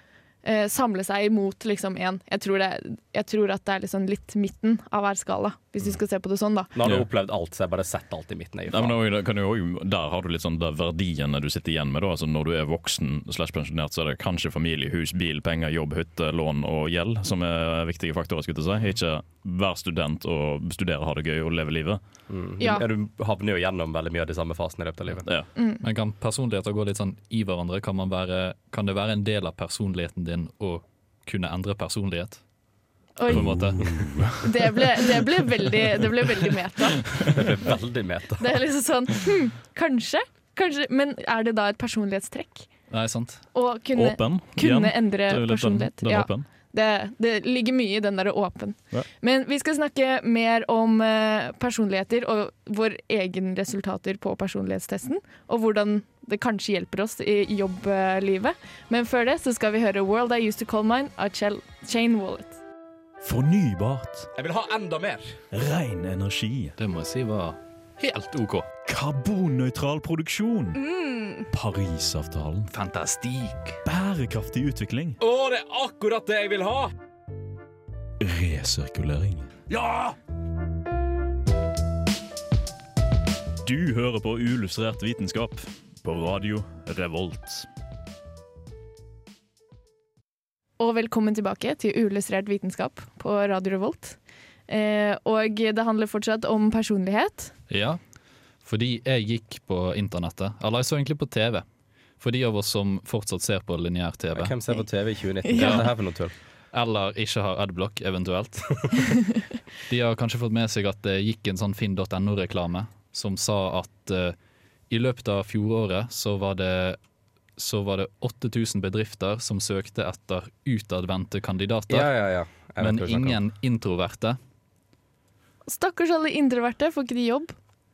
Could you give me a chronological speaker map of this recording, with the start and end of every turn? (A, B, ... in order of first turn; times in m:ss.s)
0:00.4-0:06.7 A
0:06.7-0:09.0 B
0:08.7-0:22.0 C
0:22.3-0:25.3 B
0:22.6-0:22.8 A
0:25.6-0:25.8 A
0:25.8-0:32.4 D
0:33.2-0:33.7 A
0:33.3-0:34.4 D
0:33.3-0:34.4 C
0:34.4-0:37.3 A
0:37.3-0:38.5 B
0:38.4-0:42.7 A
0:42.9-0:43.4 D
0:43.5-1:02.6 A
0:44.0-0:46.5 C
1:03.2-1:04.3 C
1:04.4-1:05.4 B
1:05.5-1:06.7 C
1:06.8-1:08.7 D
1:08.8-1:10.8 C
1:10.8-1:11.5 A
1:11.5-1:12.7 C
1:12.7-1:13.8 D
1:13.8-1:15.2 C
1:15.2-1:16.9 B
1:18.2-1:19.5 C
1:19.7-1:20.2 B
1:23.6-1:27.7 C
1:30.8-1:34.2 A
1:34.7-1:37.5 A
1:37.7-1:38.0 D
1:38.6-1:41.6 D
1:42.2-1:44.6 D
1:44.4-1:46.3 B
1:45.4-1:45.8 A
1:46.7-1:49.0 D
1:49.9-1:54.4 D
1:54.9-1:57.0 D
1:57.6-2:04.4 D
2:01.9-2:03.4 B
2:05.7-2:07.5 A